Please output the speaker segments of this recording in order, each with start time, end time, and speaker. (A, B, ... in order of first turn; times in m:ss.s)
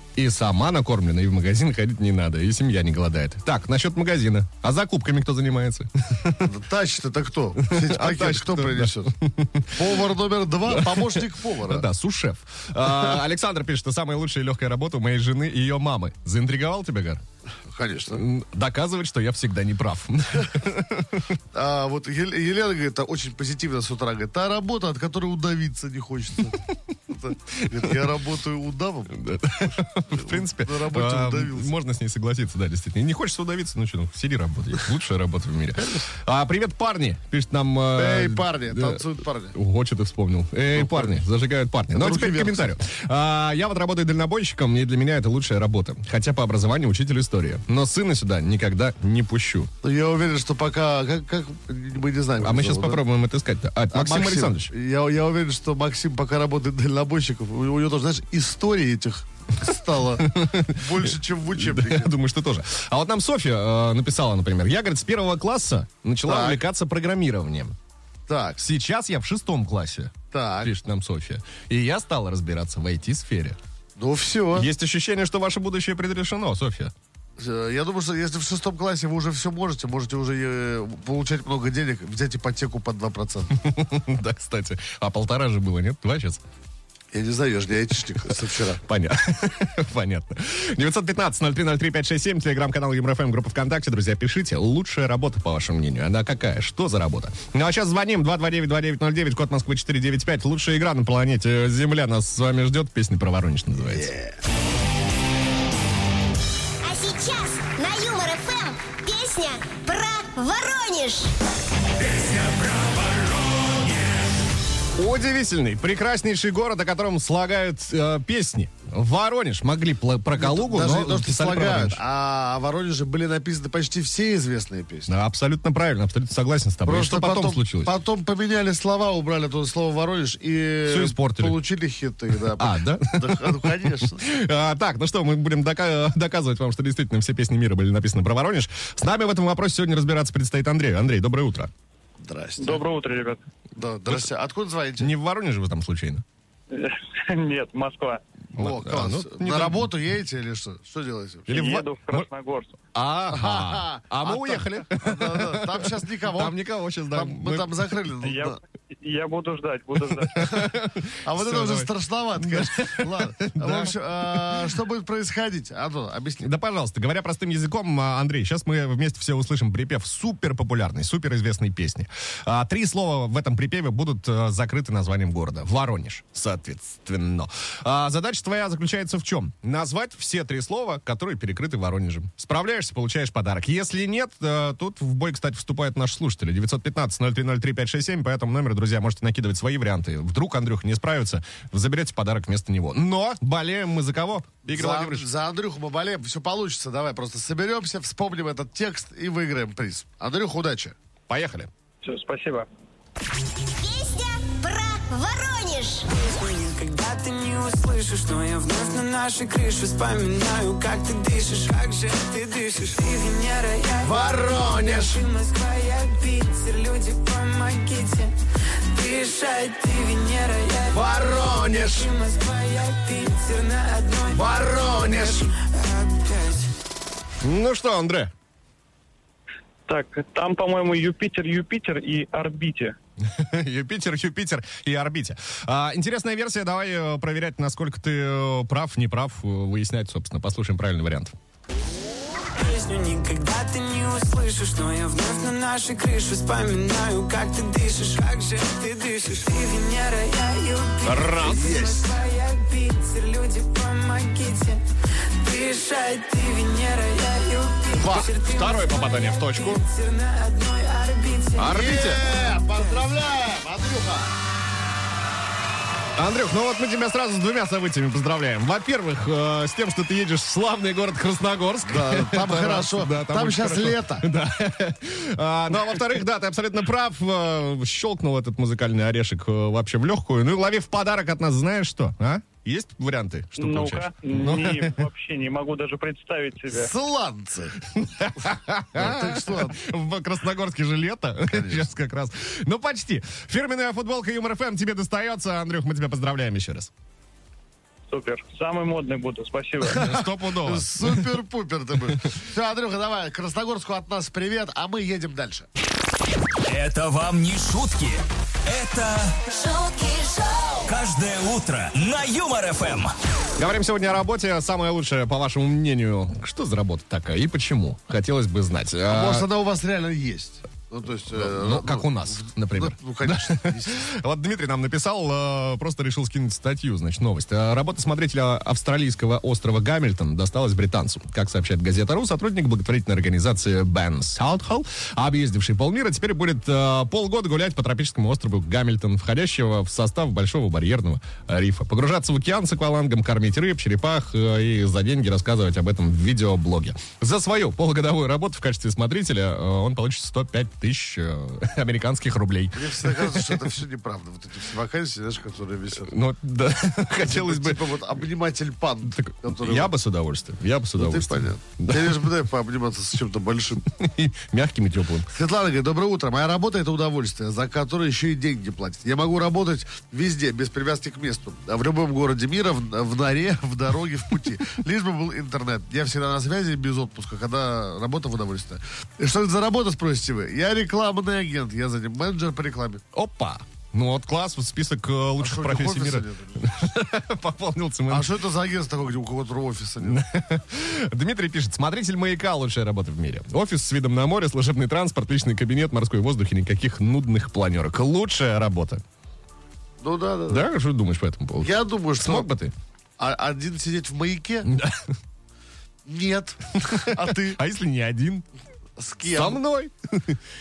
0:00.2-0:06.5 A
0:06.4-0:09.1 B
0:07.6-0:09.8 A
0:09.8-0:11.8 B
0:10.7-0:17.2 A
0:17.7-0:18.2 B
0:18.1-0:21.3 A
0:21.5-0:29.1 B
0:29.2-0:39.0 A
0:30.1-0:31.7 B
0:35.8-0:36.1 B
0:37.9-0:39.6 B
0:39.5-0:49.7 A
0:40.8-0:41.2 B
0:41.9-0:42.8 B
0:49.8-0:53.0 B
0:52.4-0:54.7 A
0:53.9-1:02.1 B
1:00.2-1:07.8 A
1:06.3-1:06.6 B
1:08.3-1:08.6 B
1:08.6-1:13.6 A
1:10.3-1:10.7 B
1:14.0-1:14.7 B
1:14.5-1:16.9 A
1:17.4-1:23.5 B
1:23.5-1:26.4 A
1:27.1-1:28.8 B
1:28.8-1:44.1 A
1:46.8-1:51.3 C
1:52.0-1:53.9 D
1:55.0-2:02.0 A
2:00.4-2:05.1 B
2:05.1-2:07.9 A
2:06.8-2:14.2 B
2:10.8-2:11.6 A
2:12.6-2:21.7 A
2:22.2-2:22.8 B
2:22.6-2:23.4 E
2:23.8-2:25.1 B
2:25.0-2:26.2 A
2:26.7-2:28.2 E
2:28.6-2:29.9 A
2:28.6-2:31.6 B
2:31.5-2:32.3 A
2:31.5-2:32.8 E
2:32.9-2:37.7 A
2:33.3-2:36.6 B
2:37.1-2:38.6 B
2:38.2-2:40.6 E
2:40.1-2:41.9 A
2:41.2-2:46.5 B
2:42.5-2:44.7 A
2:46.4-3:15.3 A
3:14.7-3:21.0 B
3:21.3-3:21.7 A
3:22.0-3:22.7 E
3:23.8-3:26.1 C
3:26.2-3:34.2 F
3:34.9-3:38.3 F
3:38.9-3:41.0 F
3:41.0-3:42.0 A
3:41.9-3:46.7 F
3:47.4-3:48.3 A
3:49.9-3:53.0 E
3:53.2-4:01.4 A
4:02.6-4:11.4 F
4:11.0-4:11.8 A
4:11.5-4:12.2 B
4:12.0-4:14.8 F
4:15.4-4:18.8 F
4:18.0-4:19.9 A
4:19.6-4:21.6 F
4:21.5-4:22.3 A
4:21.7-4:24.4 B
4:26.2-4:45.0 A
4:31.8-4:34.2 B
4:43.6-4:46.9 E
4:46.7-4:47.8 B
4:48.0-4:56.9 A
4:49.0-4:49.8 B
4:51.5-4:51.8 B
4:58.1-5:00.0 E
4:59.8-5:01.3 A
5:00.6-5:05.7 B
5:06.7-5:13.2 D
5:13.6-5:19.5 A
5:19.1-5:24.1 B
5:21.3-5:53.6 A
5:52.7-5:56.2 B
5:56.0-5:57.9 A
5:57.2-6:00.0 B
5:59.1-6:02.3 A
6:01.0-6:03.8 B
6:03.9-6:05.3 A
6:05.3-6:23.0 B
6:23.1-6:28.3 A
6:25.4-6:26.6 B
6:28.1-6:30.2 B
6:30.0-6:39.0 A
6:40.0-6:40.7 B
6:40.5-6:42.7 A
6:41.6-6:42.5 B
6:43.2-6:44.7 B
6:44.7-6:45.1 A
6:46.0-6:47.6 B
6:46.8-6:48.4 A
6:49.0-6:49.6 B
6:49.2-6:50.4 A